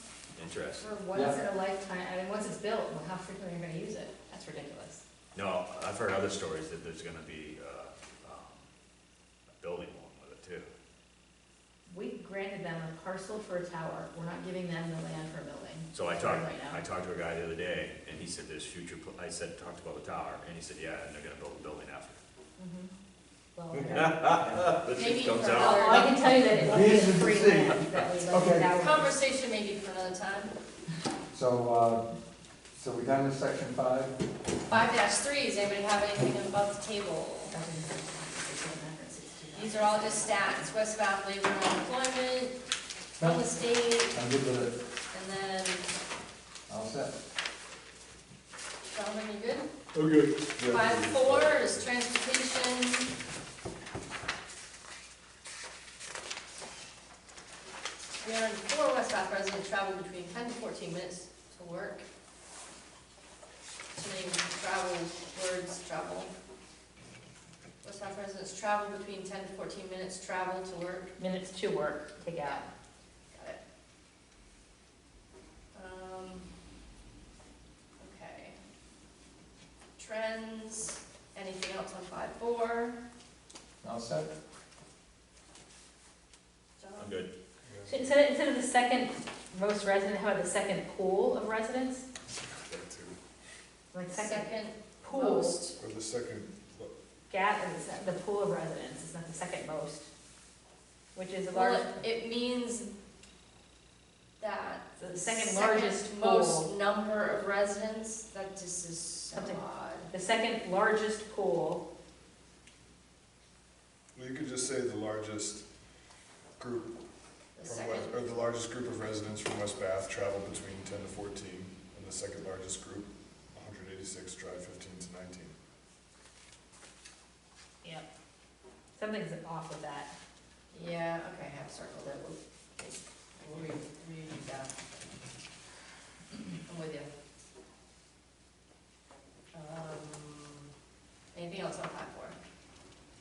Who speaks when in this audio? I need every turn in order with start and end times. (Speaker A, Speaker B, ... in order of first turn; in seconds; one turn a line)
Speaker A: 0.3-0.9
Speaker B: 0.8-5.0
Speaker C: 1.1-1.4
Speaker A: 5.3-8.6
Speaker A: 9.6-10.7
Speaker B: 11.9-16.8
Speaker A: 15.9-22.2
Speaker B: 22.6-22.9
Speaker B: 23.6-24.2
Speaker C: 23.7-24.7
Speaker A: 23.9-26.1
Speaker D: 24.9-27.0
Speaker B: 25.6-29.2
Speaker C: 26.3-28.8
Speaker D: 28.7-30.5
Speaker C: 31.3-32.0
Speaker C: 32.7-34.2
Speaker D: 34.7-37.5
Speaker B: 37.5-40.7
Speaker D: 39.5-42.5
Speaker D: 43.2-44.2
Speaker C: 43.2-44.8
Speaker D: 45.1-45.9
Speaker C: 46.7-47.1
Speaker D: 48.9-49.7
Speaker E: 49.9-51.8
Speaker D: 50.6-53.1
Speaker D: 58.2-62.0
Speaker D: 64.0-66.3
Speaker D: 67.8-71.1
Speaker B: 71.2-72.7
Speaker D: 75.7-76.5
Speaker D: 78.0-78.6
Speaker D: 80.0-83.0
Speaker C: 83.8-84.3
Speaker D: 86.8-87.2
Speaker A: 87.0-87.3
Speaker E: 87.7-87.9
Speaker B: 87.8-92.1
Speaker E: 92.5-93.2
Speaker B: 93.9-95.6
Speaker D: 94.1-95.8
Speaker E: 95.8-96.9
Speaker B: 97.3-100.1
Speaker B: 101.1-102.0
Speaker D: 101.5-102.9
Speaker D: 104.4-110.1
Speaker B: 105.0-106.7
Speaker B: 109.3-111.8
Speaker E: 114.2-115.7
Speaker E: 116.6-116.9
Speaker D: 117.6-118.1
Speaker E: 117.6-125.5
Speaker B: 127.8-128.1
Speaker B: 129.0-130.1
Speaker D: 130.7-134.7
Speaker D: 136.7-137.1
Speaker D: 139.5-140.7
Speaker D: 141.3-142.4